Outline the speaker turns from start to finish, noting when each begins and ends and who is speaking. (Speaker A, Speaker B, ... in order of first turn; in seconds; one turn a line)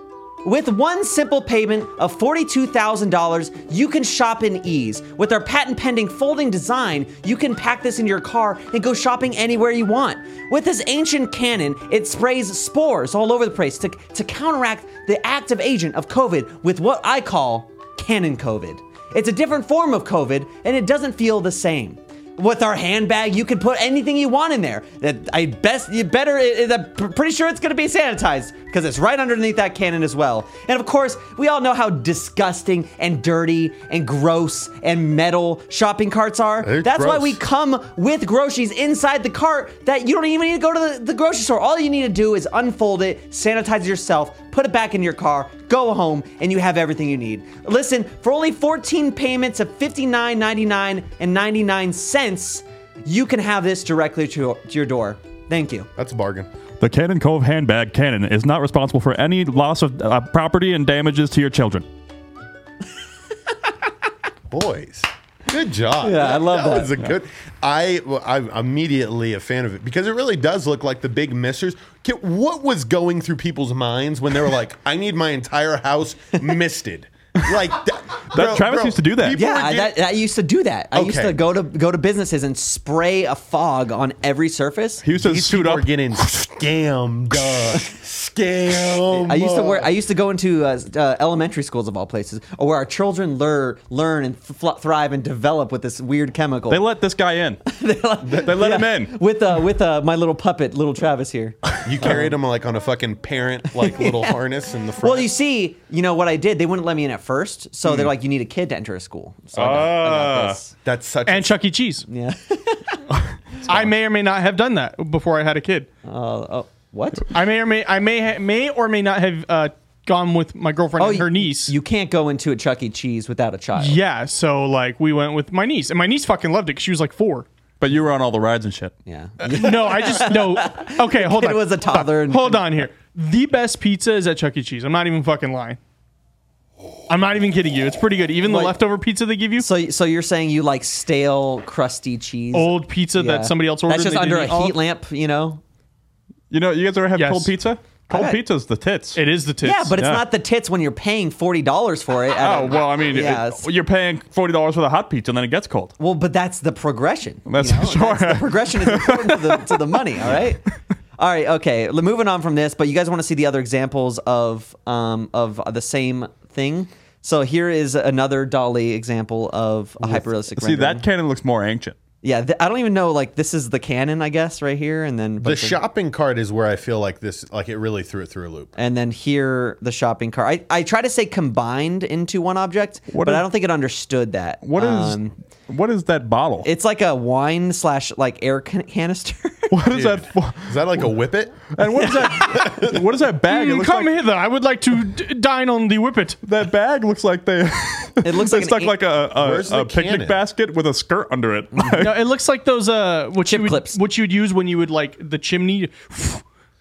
Speaker A: 0.4-55.9
Speaker B: 36.6-37.4
Speaker B: 56.0-56.5
Speaker C: 56.8-61.9
Speaker B: 64.5-80.0
Speaker A: 66.0-66.9
Speaker C: 78.3-79.4
Speaker A: 79.3-85.0
Speaker B: 80.9-81.4
Speaker C: 85.0-85.9
Speaker B: 85.2-89.9
Speaker A: 89.1-96.8
Speaker C: 96.7-97.6
Speaker A: 97.7-102.3
Speaker C: 98.3-99.1
Speaker B: 101.8-105.3
Speaker A: 103.9-104.3
Speaker A: 105.0-110.7
Speaker C: 109.5-110.6
Speaker B: 110.8-111.6
Speaker D: 111.3-112.1
Speaker A: 112.1-113.0
Speaker D: 113.7-115.9
Speaker A: 116.0-117.3
Speaker D: 117.3-121.7
Speaker A: 121.0-124.0
Speaker D: 123.8-127.5
Speaker C: 127.8-128.9
Speaker A: 129.1-132.8
Speaker D: 129.5-135.8
Speaker D: 137.1-139.7
Speaker A: 138.4-138.8
Speaker A: 139.6-145.6
Speaker D: 142.5-144.8
Speaker C: 146.5-149.2
Speaker D: 147.2-147.5
Speaker A: 148.1-148.4
Speaker D: 149.2-149.9
Speaker A: 149.6-153.7
Speaker C: 150.0-150.2
Speaker C: 152.4-155.9
Speaker A: 156.0-160.6
Speaker C: 157.5-160.4
Speaker A: 161.2-171.1
Speaker B: 170.0-170.3
Speaker C: 170.6-172.0
Speaker A: 172.2-175.8
Speaker B: 175.4-178.7
Speaker A: 178.8-185.3
Speaker C: 183.1-183.4
Speaker C: 184.6-186.7
Speaker A: 186.6-189.8
Speaker C: 189.7-191.1
Speaker B: 189.9-191.7
Speaker C: 191.7-194.2
Speaker B: 192.4-193.0
Speaker D: 193.5-196.4
Speaker C: 196.4-202.2
Speaker A: 198.2-199.0
Speaker B: 199.3-200.4
Speaker A: 201.7-202.1
Speaker D: 202.0-206.4
Speaker A: 203.4-204.0